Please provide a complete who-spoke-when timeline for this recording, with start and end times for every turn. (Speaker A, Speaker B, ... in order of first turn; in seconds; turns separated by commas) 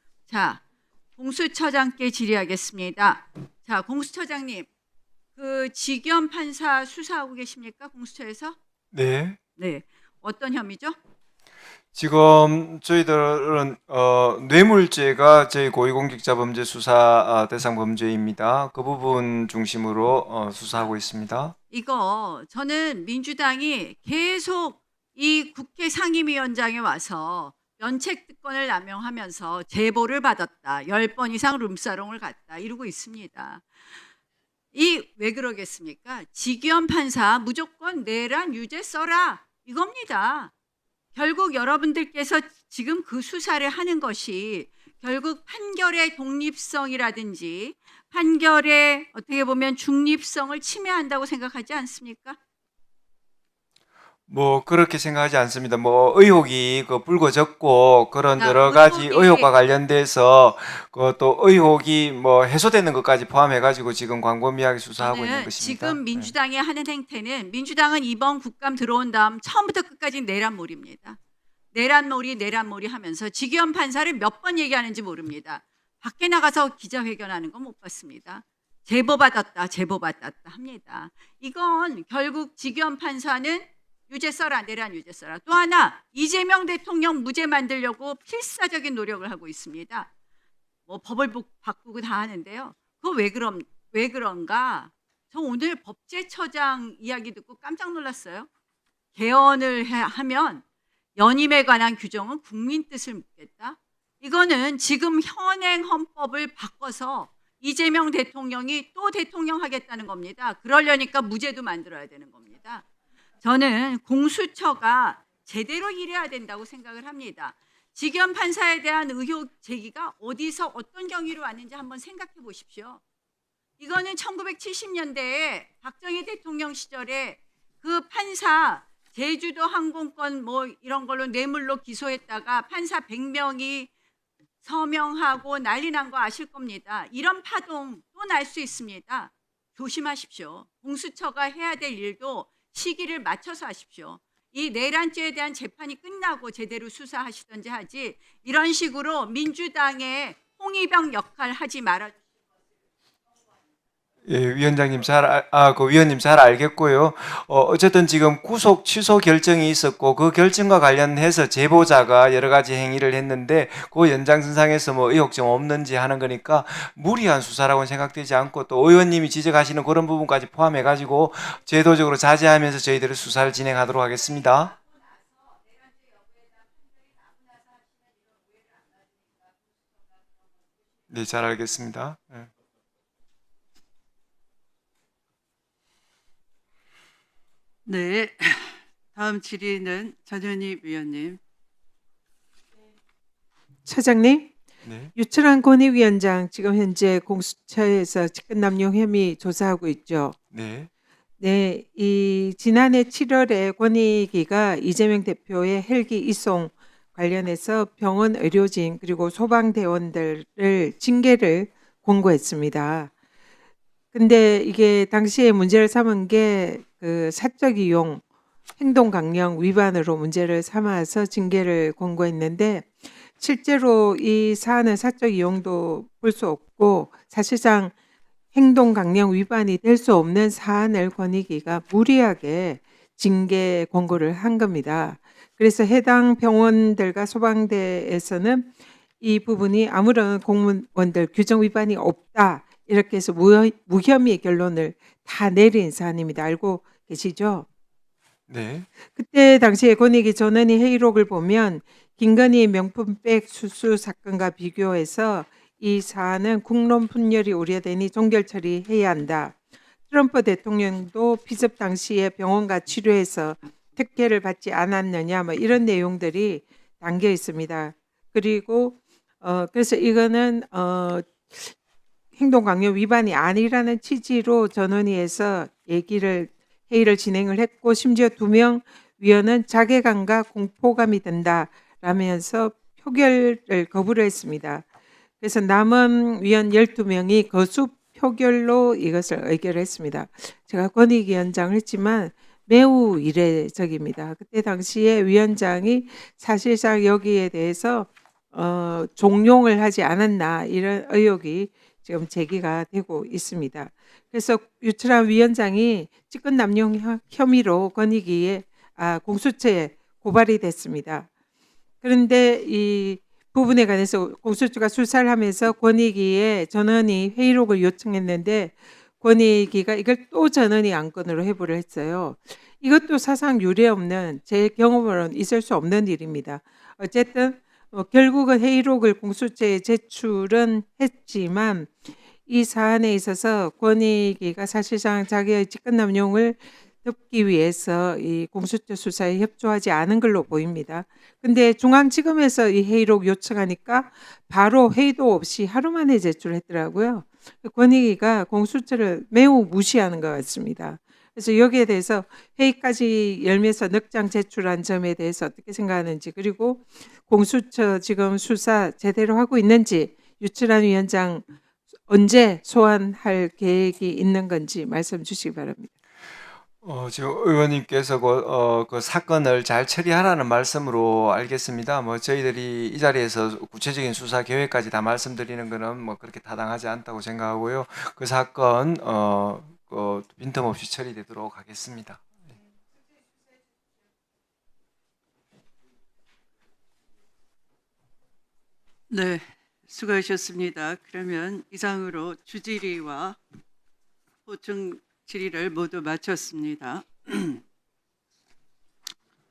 Speaker A: 0.3-0.6, Speaker A: 1.2-4.7, Speaker A: 5.3-8.6, Speaker B: 8.9-9.4, Speaker A: 9.6-10.9, Speaker B: 11.9-21.5, Speaker A: 21.7-33.6, Speaker A: 34.7-40.5, Speaker A: 41.1-52.4, Speaker B: 54.3-66.3, Speaker A: 58.4-59.5, Speaker A: 65.0-71.2, Speaker A: 71.7-90.1, Speaker A: 90.9-98.5, Speaker A: 99.1-100.6, Speaker A: 101.2-112.8, Speaker A: 113.4-123.0, Speaker A: 123.8-133.9, Speaker A: 134.6-152.2, Speaker B: 154.2-174.8, Speaker B: 181.1-182.5, Speaker C: 187.8-191.4, Speaker D: 193.8-194.5, Speaker B: 194.8-195.1, Speaker D: 195.1-200.4, Speaker B: 200.5-200.9, Speaker D: 201.4-213.1, Speaker D: 214.1-218.2, Speaker D: 218.8-227.9, Speaker D: 228.5-247.6, Speaker B: 248.5-248.9, Speaker D: 249.0-259.6, Speaker D: 260.1-271.7, Speaker D: 272.3-284.8, Speaker D: 285.4-311.3, Speaker D: 312.0-361.4, Speaker D: 362.1-365.9, Speaker B: 366.8-382.2, Speaker C: 389.1-393.4, Speaker C: 394.4-397.6